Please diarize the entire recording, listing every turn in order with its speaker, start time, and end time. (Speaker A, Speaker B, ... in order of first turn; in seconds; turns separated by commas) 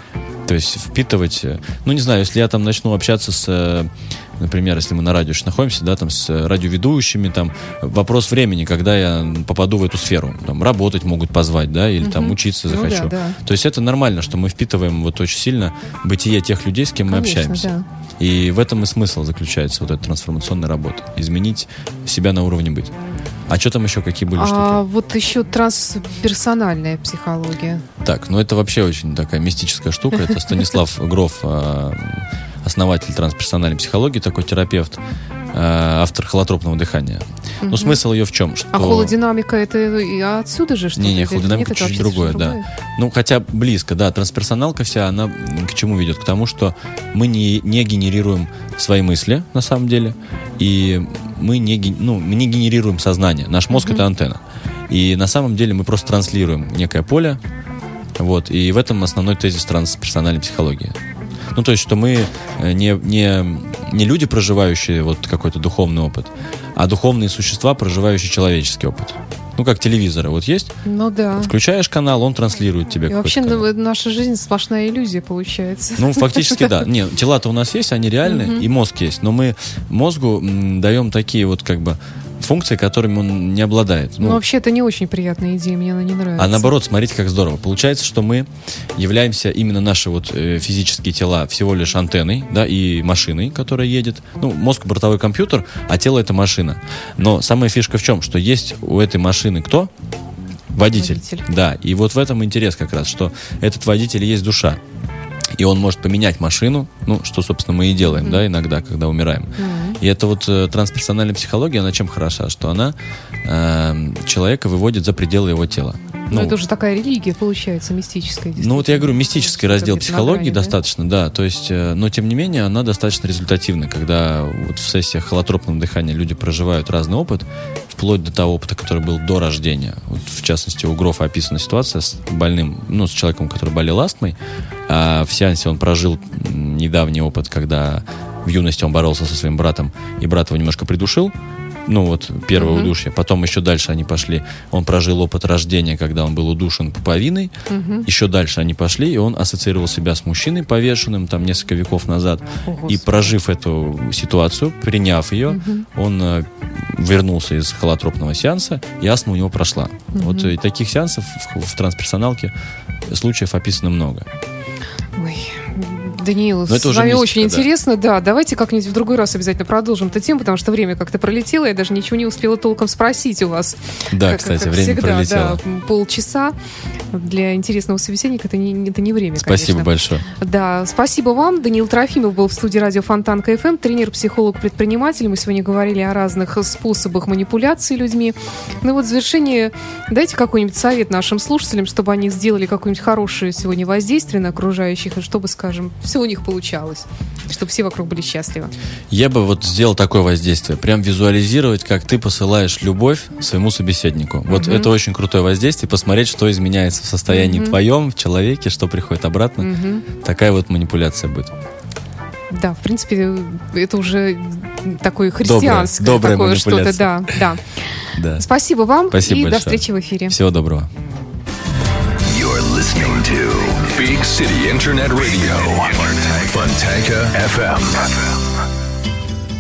Speaker A: 0.5-22.9, Speaker B: 12.0-13.4, Speaker B: 17.1-17.9, Speaker A: 23.5-24.8, Speaker B: 24.3-27.9, Speaker A: 28.0-35.0, Speaker A: 35.5-39.1, Speaker B: 37.6-38.0, Speaker B: 38.7-42.7, Speaker A: 41.0-57.4, Speaker B: 53.7-54.0, Speaker A: 58.2-61.0, Speaker A: 61.5-70.8, Speaker B: 70.8-71.5, Speaker A: 71.3-73.7, Speaker B: 73.1-76.8, Speaker A: 76.0-84.4, Speaker B: 78.2-78.6, Speaker B: 84.2-86.7, Speaker A: 86.4-99.9, Speaker A: 100.7-104.8, Speaker B: 100.9-101.5, Speaker A: 105.5-116.6, Speaker B: 108.0-108.4, Speaker B: 109.6-110.0, Speaker B: 116.3-120.8, Speaker A: 118.6-141.3, Speaker A: 141.9-147.5, Speaker B: 142.5-142.9, Speaker B: 147.7-148.1, Speaker A: 148.0-162.5, Speaker B: 152.7-153.3, Speaker B: 155.5-155.9, Speaker B: 160.1-160.5, Speaker A: 163.1-164.3, Speaker B: 165.2-176.5, Speaker A: 166.7-167.7, Speaker A: 174.1-175.6, Speaker B: 177.1-198.7, Speaker A: 179.4-180.2, Speaker A: 199.1-211.5, Speaker B: 204.5-204.9, Speaker B: 207.3-207.8, Speaker B: 209.6-210.0, Speaker B: 212.5-217.8, Speaker A: 215.4-217.4, Speaker A: 218.1-218.4, Speaker B: 218.4-220.4, Speaker A: 219.1-220.9, Speaker C: 222.2-228.6